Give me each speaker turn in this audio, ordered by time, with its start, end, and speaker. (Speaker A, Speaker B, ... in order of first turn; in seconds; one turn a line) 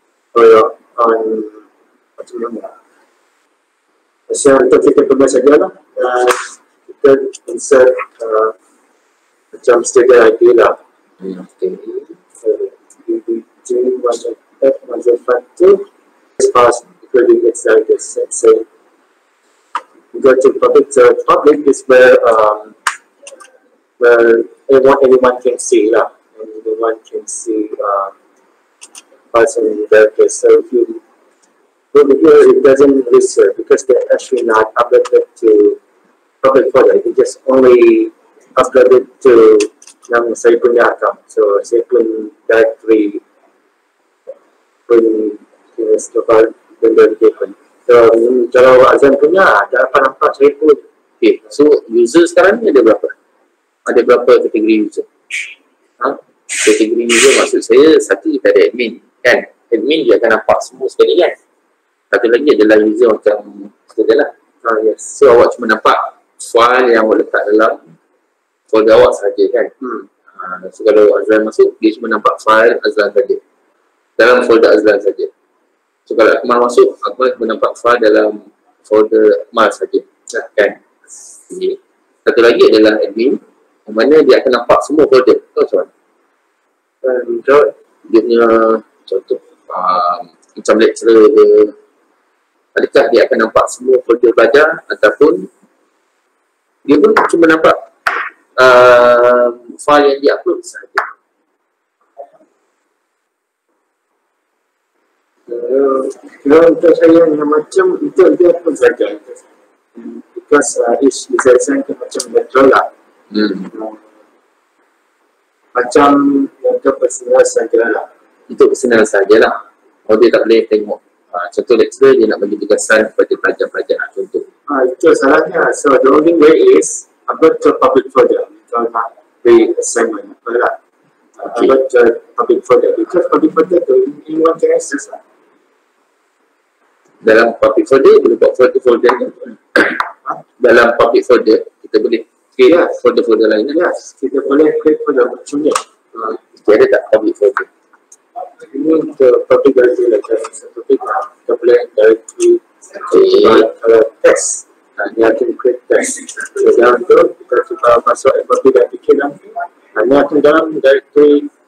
Speaker A: 0.3-1.6
Speaker A: 2.2-2.7
Speaker A: 4.3-8.5
Speaker A: 9.5-10.8
Speaker B: 11.2-12.1
Speaker A: 12.4-15.9
Speaker A: 16.4-18.7
Speaker A: 20.1-22.8
Speaker A: 24.0-28.1
Speaker A: 29.3-31.0
Speaker A: 31.9-35.8
Speaker A: 36.4-43.2
Speaker A: 44.9-50.8
Speaker B: 51.2-53.1
Speaker B: 53.8-55.1
Speaker B: 56.5-61.4
Speaker B: 62.1-64.3
Speaker A: 64.6-65.1
Speaker B: 65.1-67.9
Speaker B: 68.7-69.7
Speaker A: 69.8-70.1
Speaker B: 70.3-73.4
Speaker B: 74.2-75.3
Speaker B: 76.0-80.7
Speaker A: 80.3-80.5
Speaker B: 81.5-85.9
Speaker A: 87.0-87.7
Speaker B: 88.1-91.8
Speaker B: 92.7-95.5
Speaker B: 96.8-97.8
Speaker B: 98.5-101.1
Speaker A: 105.5-112.9
Speaker B: 113.3-113.7
Speaker A: 113.7-114.0
Speaker A: 115.7-118.1
Speaker B: 118.5-124.5
Speaker A: 124.7-130.8
Speaker A: 131.4-135.2
Speaker B: 137.2-140.0
Speaker B: 140.6-143.8
Speaker A: 142.6-143.0
Speaker A: 143.7-145.8
Speaker B: 146.2-147.7
Speaker A: 148.7-159.4
Speaker B: 153.1-153.7
Speaker A: 159.9-161.5